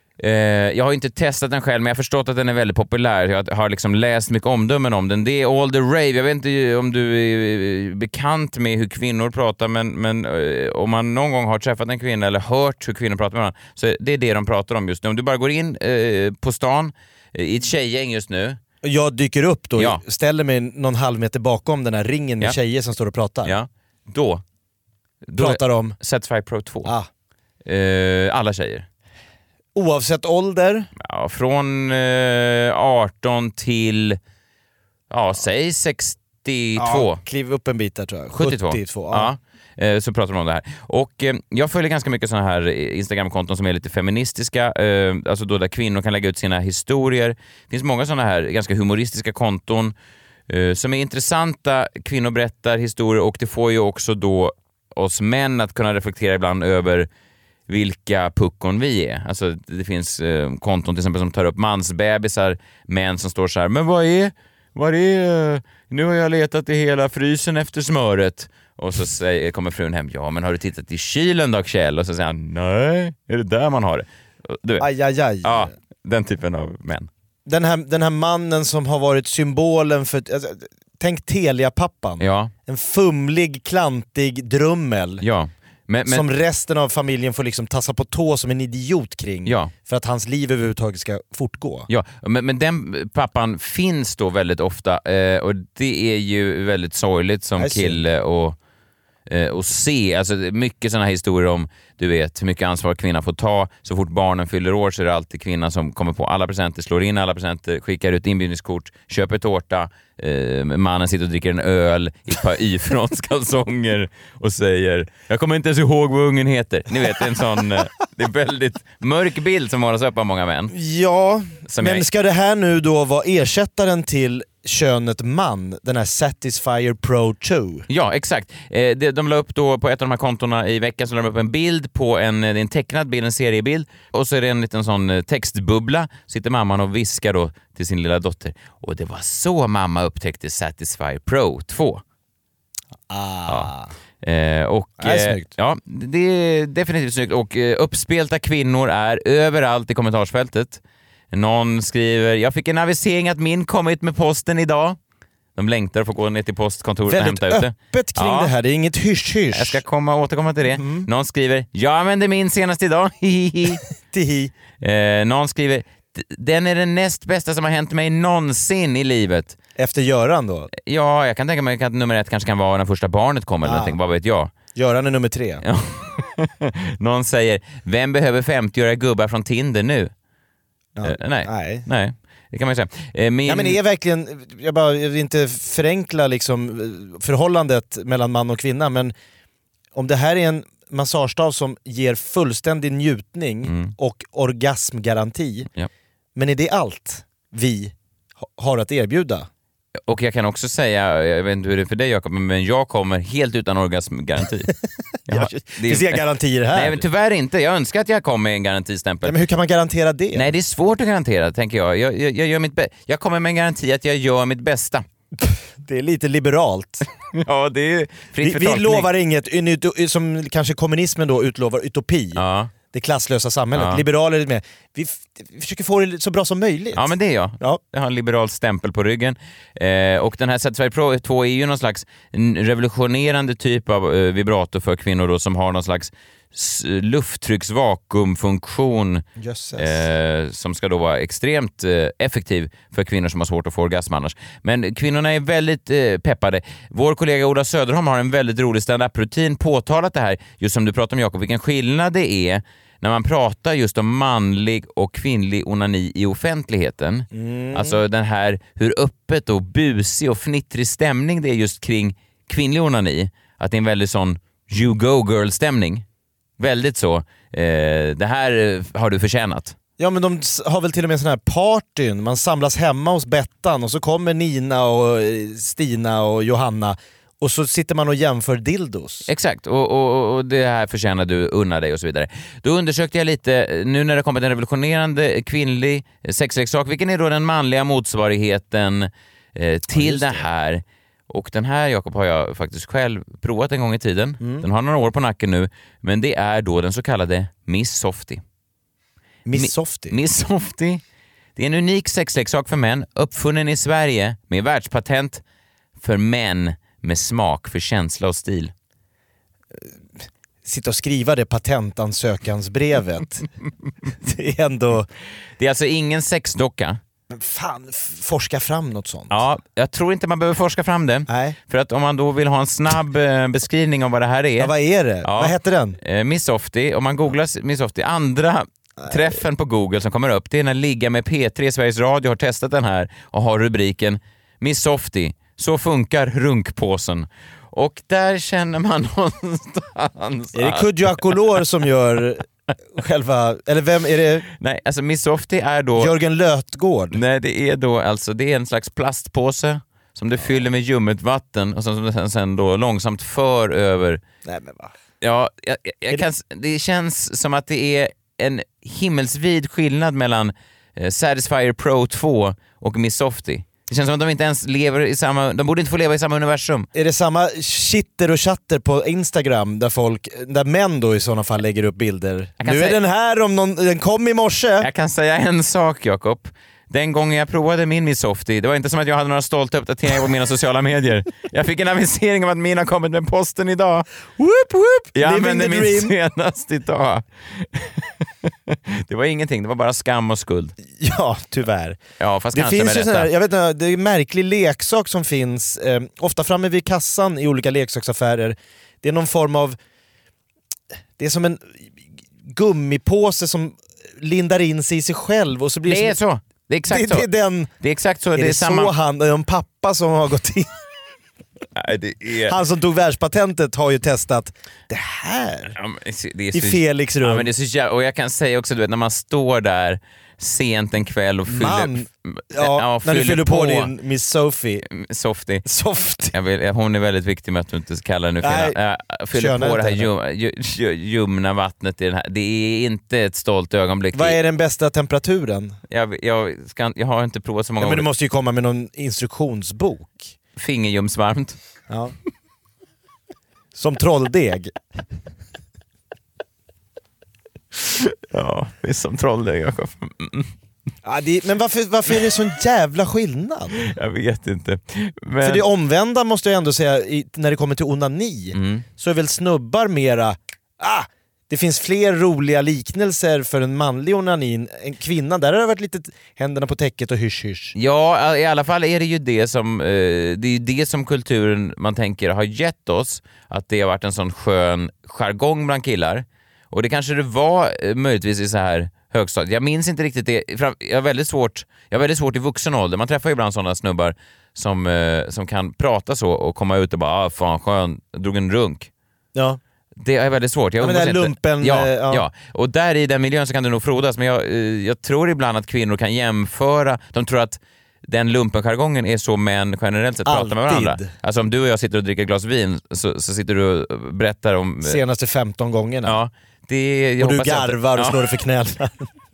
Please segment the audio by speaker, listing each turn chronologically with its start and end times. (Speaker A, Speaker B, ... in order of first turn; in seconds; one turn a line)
Speaker A: 0.2-18.6
Speaker B: 18.8-23.6
Speaker A: 19.8-20.0
Speaker A: 23.4-24.4
Speaker A: 25.2-26.9
Speaker B: 25.4-25.9
Speaker A: 27.6-28.9
Speaker B: 29.7-30.9
Speaker A: 31.0-34.2
Speaker A: 35.1-37.2
Speaker B: 36.8-39.3
Speaker A: 38.3-49.9
Speaker A: 50.5-57.1
Speaker A: 57.7-74.9
Speaker B: 74.8-75.7
Speaker A: 75.4-77.1
Speaker B: 77.5-85.2
Speaker A: 82.2-82.5
Speaker A: 85.2-86.3
Speaker B: 86.1-91.9
Speaker A: 89.4-89.7
Speaker A: 91.9-98.6
Speaker B: 97.6-98.0
Speaker A: 99.3-120.7
Speaker B: 120.7-127.9
Speaker A: 121.7-122.0
Speaker A: 127.9-142.0
Speaker B: 143.1-143.9
Speaker A: 144.2-155.0
Speaker B: 145.0-145.5
Speaker A: 155.6-158.5
Speaker B: 157.1-159.8
Speaker A: 159.5-163.8
Speaker B: 160.7-161.1
Speaker B: 164.0-164.5
Speaker A: 164.8-169.6
Speaker B: 169.8-170.7
Speaker A: 170.7-174.5
Speaker B: 173.6-174.0
Speaker B: 174.7-175.6
Speaker A: 175.6-180.1
Speaker B: 180.9-181.8
Speaker A: 181.0-183.8
Speaker B: 183.4-189.1
Speaker B: 189.9-195.7
Speaker A: 193.7-193.9
Speaker B: 196.3-199.5
Speaker A: 200.1-204.7
Speaker A: 205.2-209.4
Speaker B: 205.3-207.0
Speaker B: 209.2-210.5
Speaker A: 210.3-215.1
Speaker B: 215.4-217.0
Speaker A: 217.4-219.1
Speaker B: 218.4-222.4
Speaker A: 222.3-222.7
Speaker B: 222.9-227.8
Speaker A: 223.7-224.0
Speaker A: 226.9-239.2
Speaker B: 239.4-240.1
Speaker A: 239.8-266.0
Speaker B: 257.3-258.0
Speaker A: 266.6-269.8
Speaker B: 270.0-279.3
Speaker A: 279.3-298.4
Speaker B: 289.9-290.5
Speaker B: 294.4-294.6
Speaker B: 299.4-300.2
Speaker A: 299.5-301.0
Speaker A: 301.6-305.4
Speaker A: 306.0-308.7
Speaker B: 310.6-313.4
Speaker B: 314.1-315.1
Speaker A: 315.6-317.0
Speaker B: 317.3-319.4
Speaker A: 319.3-324.7
Speaker B: 321.3-321.6
Speaker B: 324.6-326.0
Speaker A: 325.2-341.4
Speaker B: 329.0-329.4
Speaker B: 340.5-344.5
Speaker A: 344.6-346.1
Speaker B: 345.9-347.2
Speaker A: 347.1-354.2
Speaker B: 354.4-354.9
Speaker A: 355.2-366.9
Speaker B: 366.9-374.9
Speaker A: 372.6-373.0
Speaker A: 374.8-384.1
Speaker B: 384.4-386.1
Speaker A: 385.1-390.7
Speaker B: 391.0-392.0
Speaker A: 392.2-393.3
Speaker B: 392.5-399.8
Speaker B: 401.2-401.9
Speaker B: 402.4-406.2
Speaker A: 405.9-407.3
Speaker B: 406.9-407.7
Speaker A: 407.8-408.9
Speaker B: 408.3-410.8
Speaker A: 411.8-412.6
Speaker B: 412.4-415.8
Speaker A: 415.7-423.9
Speaker B: 416.5-417.5
Speaker B: 421.4-424.8
Speaker A: 424.9-425.6
Speaker B: 425.6-426.3
Speaker A: 426.3-434.4
Speaker B: 428.4-428.8
Speaker B: 429.3-430.1
Speaker B: 434.1-435.8
Speaker A: 435.9-438.1
Speaker B: 437.8-440.3
Speaker A: 440.6-441.6
Speaker B: 441.9-442.1
Speaker B: 443.7-444.7
Speaker A: 448.3-450.5
Speaker B: 451.0-453.8
Speaker A: 453.8-455.6
Speaker B: 455.4-467.7
Speaker A: 458.5-458.8
Speaker A: 467.7-488.9
Speaker B: 489.3-489.6
Speaker A: 490.0-505.0
Speaker B: 490.8-492.2
Speaker B: 500.2-501.1
Speaker B: 504.8-506.2
Speaker A: 506.0-508.2
Speaker B: 507.2-509.1